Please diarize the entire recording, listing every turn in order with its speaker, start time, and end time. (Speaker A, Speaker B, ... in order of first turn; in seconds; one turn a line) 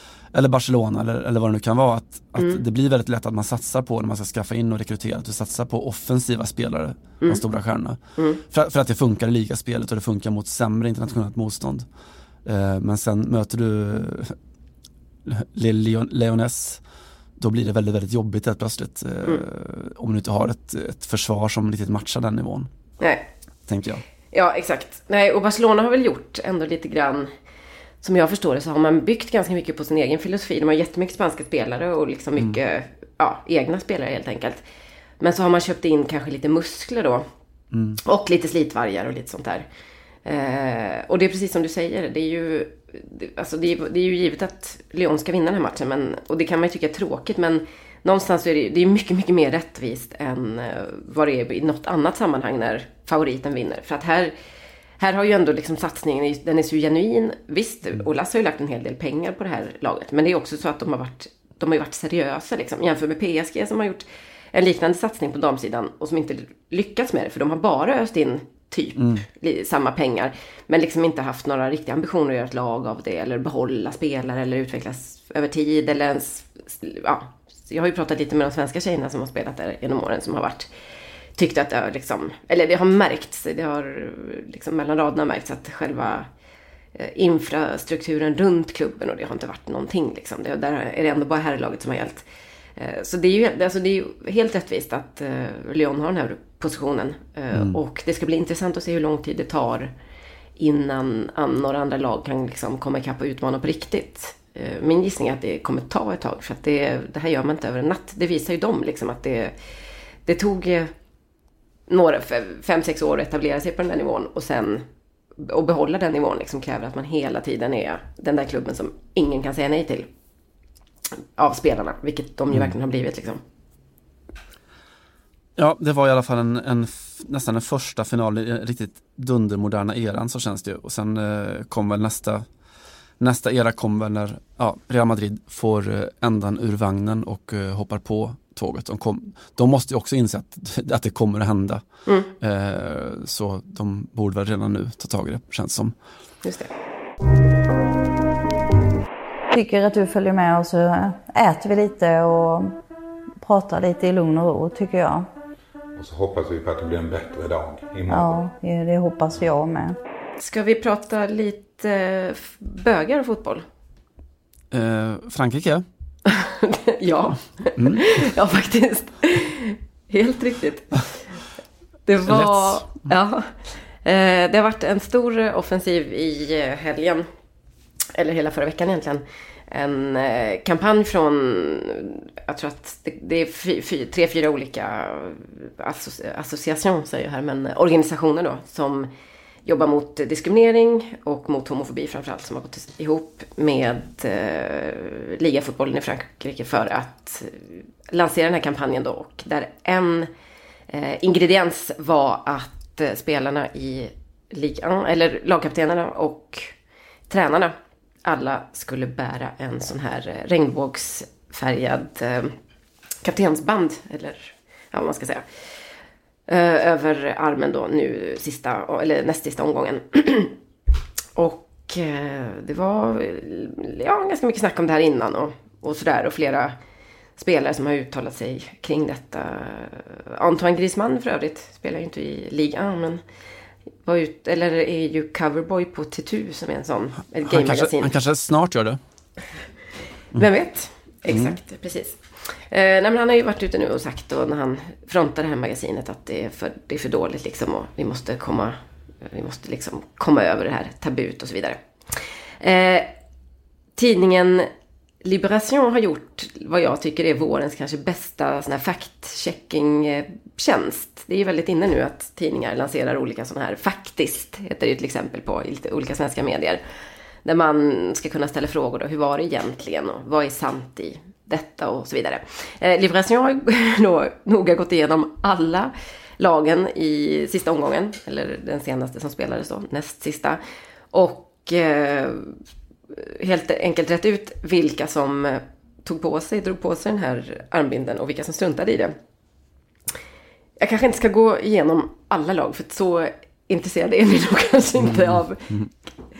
Speaker A: 0.3-11.9
Speaker A: 12.4-14.4
Speaker A: 15.3-16.8
Speaker A: 17.4-22.7
Speaker B: 23.0-23.2
Speaker A: 23.7-24.0
Speaker B: 24.3-27.3
Speaker B: 28.0-34.6
Speaker B: 35.2-37.2
Speaker A: 37.7-38.0
Speaker B: 38.0-39.7
Speaker B: 40.2-54.3
Speaker B: 55.0-80.7
Speaker A: 69.0-69.2
Speaker B: 81.4-86.3
Speaker B: 87.0-92.2
Speaker B: 92.8-99.9
Speaker A: 97.5-97.8
Speaker B: 100.6-109.5
Speaker B: 110.3-110.9
Speaker B: 111.9-114.8
Speaker B: 115.4-120.1
Speaker B: 121.4-123.4
Speaker A: 125.6-132.4
Speaker A: 133.2-141.8
Speaker B: 142.1-142.3
Speaker A: 142.4-145.9
Speaker B: 146.4-146.7
Speaker C: 149.5-152.8
Speaker C: 153.4-155.3
Speaker D: 156.0-158.4
Speaker C: 158.1-160.0
Speaker B: 160.4-163.6
Speaker A: 164.7-165.8
Speaker B: 166.3-171.1
Speaker A: 167.8-168.1
Speaker B: 172.1-177.3
Speaker A: 172.2-173.1
Speaker B: 178.2-189.1
Speaker B: 189.7-200.3
Speaker B: 200.9-206.7
Speaker B: 207.3-212.5
Speaker B: 213.2-215.4
Speaker B: 216.5-220.6
Speaker B: 221.4-226.8
Speaker B: 227.4-233.2
Speaker B: 234.1-238.1
Speaker A: 237.5-239.0
Speaker B: 240.3-242.2
Speaker A: 241.3-241.6
Speaker B: 242.7-253.1
Speaker B: 254.0-254.7
Speaker B: 255.2-266.8
Speaker B: 267.4-280.6
Speaker B: 281.1-282.5
Speaker B: 283.1-289.1
Speaker B: 290.8-295.8
Speaker A: 295.0-295.9